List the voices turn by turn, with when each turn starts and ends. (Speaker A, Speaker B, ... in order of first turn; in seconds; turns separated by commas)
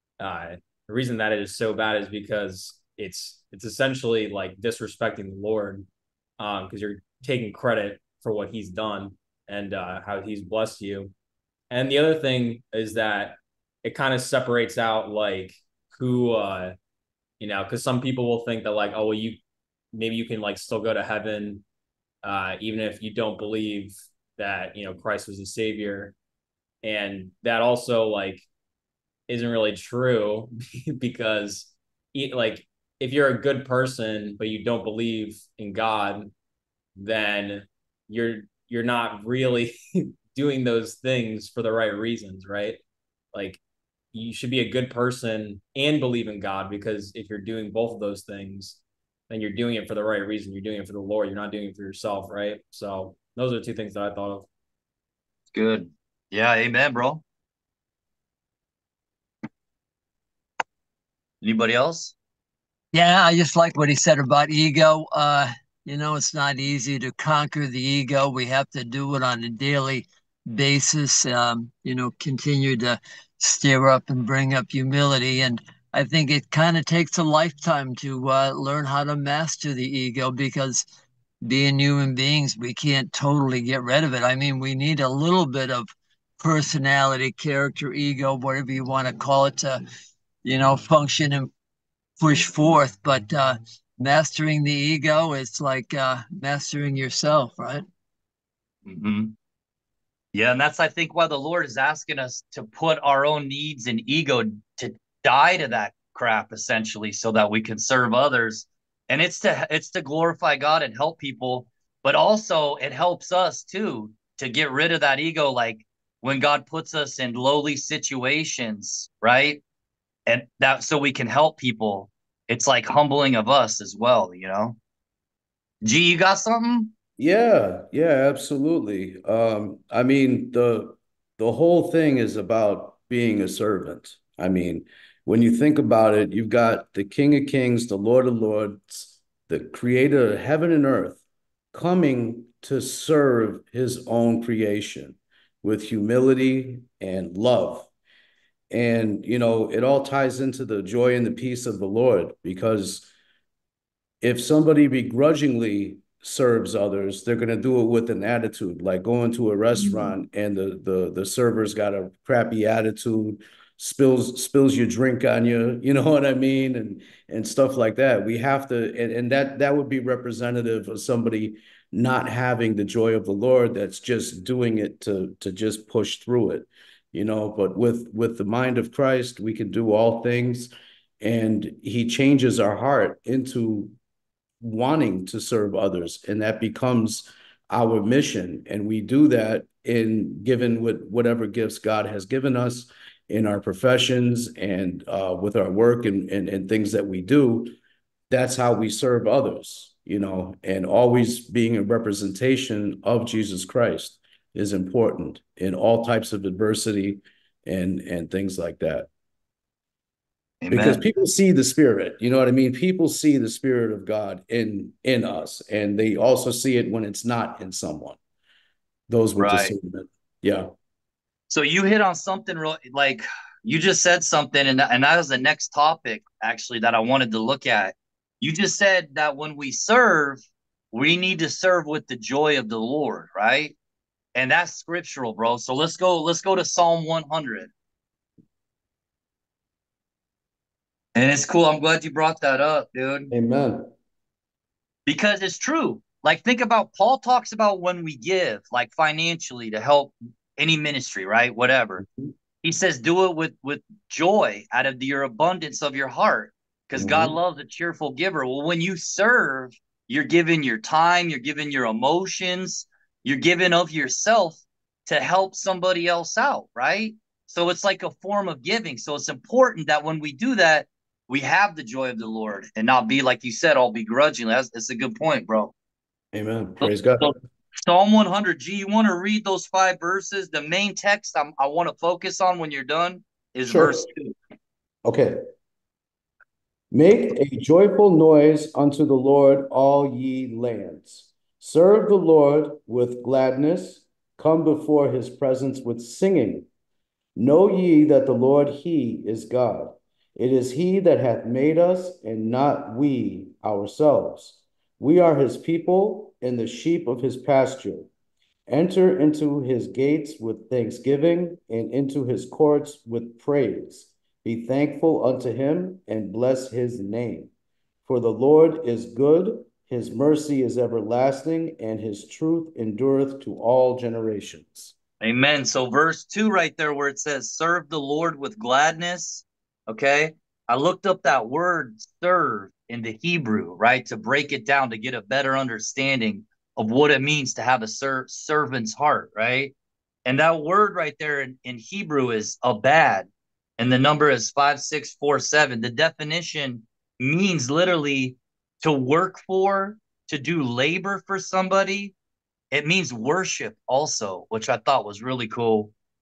Speaker A: 0.2-5.9, Speaker A: 6.4-11.1, Speaker A: 11.7-16.7, Speaker A: 17.4-19.4, Speaker A: 19.9-21.6, Speaker A: 22.2-26.1, Speaker A: 26.8-28.4, Speaker A: 29.3-36.3, Speaker A: 37.0-42.8, Speaker A: 43.3-43.6, Speaker A: 44.1-54.5, Speaker B: 55.5-57.2, Speaker B: 61.4-62.1, Speaker C: 62.9-80.8, Speaker C: 81.4-89.8, Speaker C: 90.4-91.5, Speaker C: 92.2-97.8, Speaker B: 98.8-99.3, Speaker B: 100.3-119.6, Speaker B: 120.3-124.8, Speaker B: 125.8-126.9, Speaker D: 127.2-141.2, Speaker D: 141.7-147.9, Speaker D: 148.7-153.1, Speaker D: 154.2-183.9, Speaker D: 184.6-197.7, Speaker D: 198.3-209.1, Speaker B: 210.6-211.0, Speaker D: 210.7-218.2, Speaker D: 219.1-220.7, Speaker B: 219.4-219.7, Speaker B: 221.5-230.4, Speaker B: 230.9-233.7, Speaker B: 234.3-237.7, Speaker B: 241.1-243.3, Speaker D: 243.3-243.9, Speaker B: 245.1-252.0, Speaker B: 252.6-275.7, Speaker D: 256.9-257.4, Speaker D: 276.3-277.3, Speaker B: 276.8-284.3, Speaker D: 283.6-284.0, Speaker D: 285.0-285.4, Speaker D: 286.9-296.7, Speaker D: 297.4-308.1, Speaker D: 308.7-317.5, Speaker D: 318.0-324.9, Speaker B: 325.2-339.7, Speaker B: 340.2-343.3, Speaker B: 343.8-352.1, Speaker B: 352.7-355.9